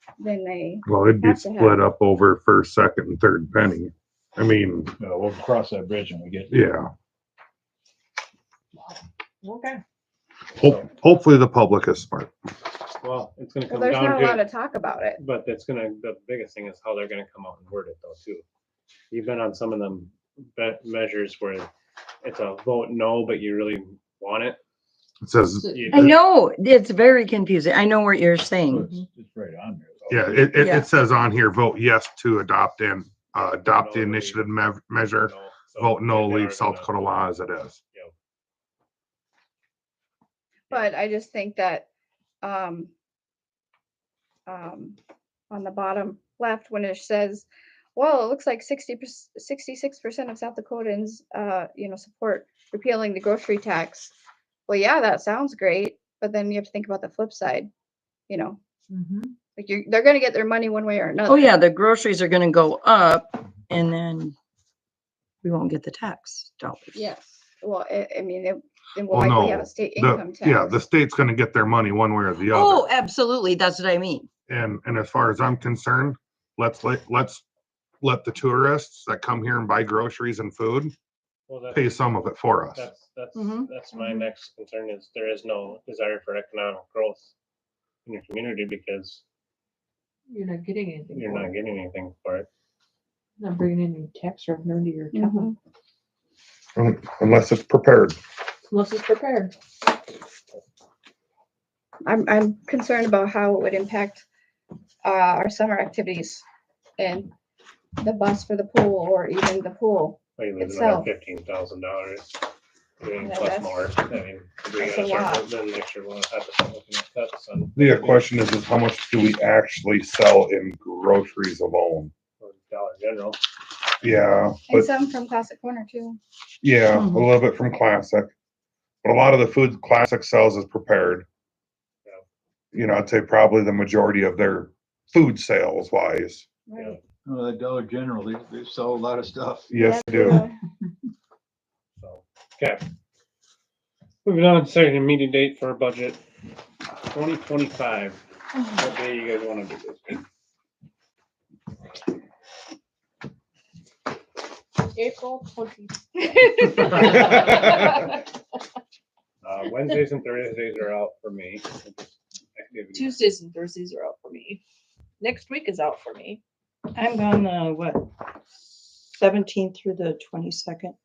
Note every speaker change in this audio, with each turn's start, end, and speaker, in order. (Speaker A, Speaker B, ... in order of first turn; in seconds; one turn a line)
Speaker A: 0.2-1.8
Speaker B: 0.8-4.9
Speaker C: 5.0-6.5
Speaker B: 6.5-6.9
Speaker D: 8.8-9.8
Speaker B: 10.6-12.3
Speaker E: 13.0-14.5
Speaker A: 13.7-15.2
Speaker E: 15.2-18.4
Speaker E: 19.1-21.7
Speaker E: 22.2-24.6
Speaker B: 25.2-26.1
Speaker D: 25.6-26.0
Speaker E: 25.7-26.1
Speaker F: 25.9-28.9
Speaker C: 28.7-30.6
Speaker B: 30.1-37.8
Speaker F: 30.6-30.9
Speaker E: 33.7-37.2
Speaker A: 40.7-41.9
Speaker A: 42.4-42.9
Speaker A: 44.5-45.0
Speaker A: 45.5-54.1
Speaker A: 54.7-57.7
Speaker A: 58.3-58.6
Speaker D: 58.9-59.3
Speaker A: 59.5-61.5
Speaker F: 61.2-64.3
Speaker F: 65.4-67.0
Speaker A: 66.9-70.7
Speaker B: 69.1-72.8
Speaker F: 72.5-74.3
Speaker B: 74.5-77.4
Speaker B: 78.0-80.9
Speaker E: 81.5-82.0
Speaker B: 81.7-82.9
Speaker E: 82.7-87.3
Speaker F: 83.3-83.7
Speaker E: 88.0-89.2
Speaker D: 90.3-91.5
Speaker E: 91.1-92.5
Speaker D: 93.4-95.5
Speaker A: 95.1-95.5
Speaker B: 96.8-98.2
Speaker D: 98.7-99.5
Speaker A: 102.0-104.2
Speaker A: 105.0-106.4
Speaker A: 107.0-107.3
Speaker A: 108.0-111.1
Speaker E: 110.4-112.4
Speaker E: 113.0-118.3
Speaker A: 113.2-113.8
Speaker A: 114.7-115.4
Speaker B: 117.8-122.1
Speaker E: 122.4-123.4
Speaker B: 124.0-124.9
Speaker A: 124.7-126.2
Speaker B: 126.6-128.3
Speaker F: 127.0-127.2
Speaker B: 129.0-131.2
Speaker B: 132.7-136.4
Speaker A: 136.7-137.0
Speaker E: 136.7-137.0
Speaker C: 137.2-139.7
Speaker B: 139.7-140.4
Speaker A: 139.8-140.5
Speaker E: 142.0-142.8
Speaker E: 144.2-146.2
Speaker E: 147.1-150.2
Speaker D: 154.9-158.0
Speaker E: 159.4-163.2
Speaker D: 162.9-164.6
Speaker D: 165.2-166.4
Speaker F: 166.9-168.1
Speaker F: 169.1-170.9